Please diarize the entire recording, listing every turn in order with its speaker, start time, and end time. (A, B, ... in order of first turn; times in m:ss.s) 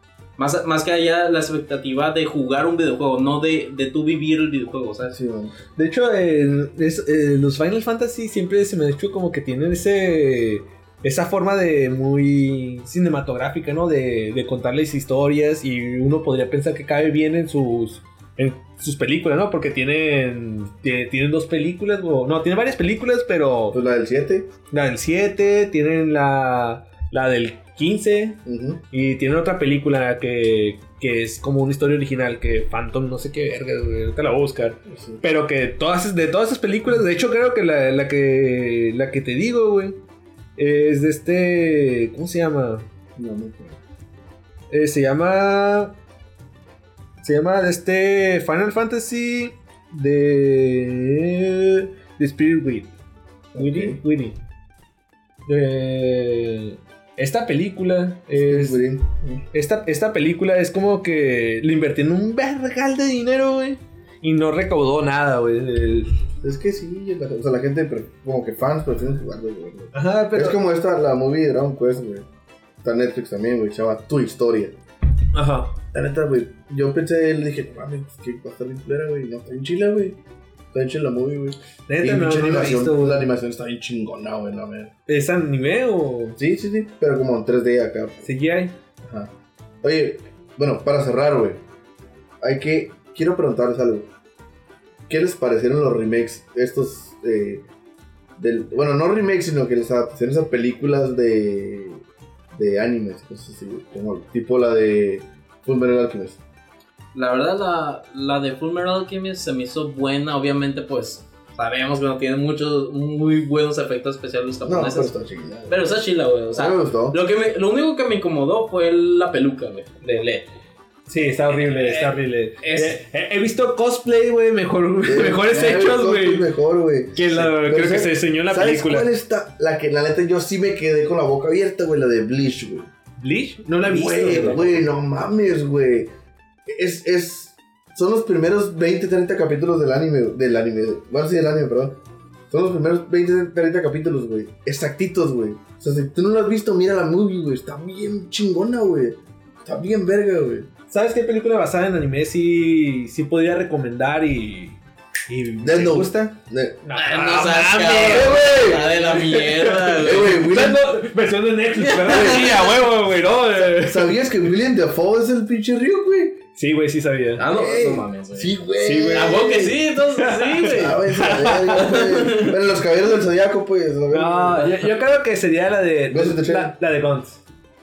0:00.4-0:05.1 A
0:05.0-0:05.5 B
0:05.8-0:23.8 C
0:23.7-0:24.5 B
0:24.7-0:28.4 C
0:28.4-0:28.8 B
0:28.9-0:40.0 C
0:34.8-0:35.2 B
0:40.6-0:42.9 C
0:43.2-0:43.8 B
0:44.7-0:45.9 C
0:47.2-0:52.9 C
0:53.5-0:54.0 B
0:53.5-0:54.4 C
0:55.5-0:58.8 C
0:58.3-0:59.4 B
0:59.5-1:06.2 C
1:06.4-1:12.2 B
1:09.9-1:10.6 C
1:12.8-1:14.8 B
1:15.3-1:15.8 C
1:15.9-1:20.2 B
1:20.7-1:24.9 B
1:21.9-1:23.2 C
1:25.1-1:26.4 C
1:26.4-1:28.3 B
1:28.2-1:28.7 C
1:29.0-1:29.3 B
1:29.8-1:31.6 B
1:32.4-1:34.1 B
1:35.1-1:37.6 B
1:38.4-1:46.4 B
1:47.1-1:55.1 A
1:54.6-1:55.8 B
1:55.7-2:00.5 A
1:56.5-1:57.2 B
2:01.1-2:06.4 C
2:01.6-2:02.1 A
2:02.6-2:03.0 A
2:05.0-2:12.9 B
2:07.2-2:09.1 C
2:13.2-2:14.8 C
2:13.8-2:16.1 B
2:14.3-2:14.7 A
2:16.7-2:30.7 B
2:30.9-2:38.5 C
2:35.6-2:36.9 B
2:37.0-2:40.4 A
2:38.0-2:39.2 B
2:39.1-2:44.2 C
2:40.0-2:41.0 B
2:41.7-2:42.7 A
2:42.1-2:42.7 B
2:43.7-2:46.4 B
2:46.6-2:47.4 C
2:47.4-2:52.6 A
2:47.5-2:49.8 B
2:48.8-2:51.9 C
2:50.6-2:54.9 B
2:54.1-2:57.4 C
2:56.1-2:56.8 B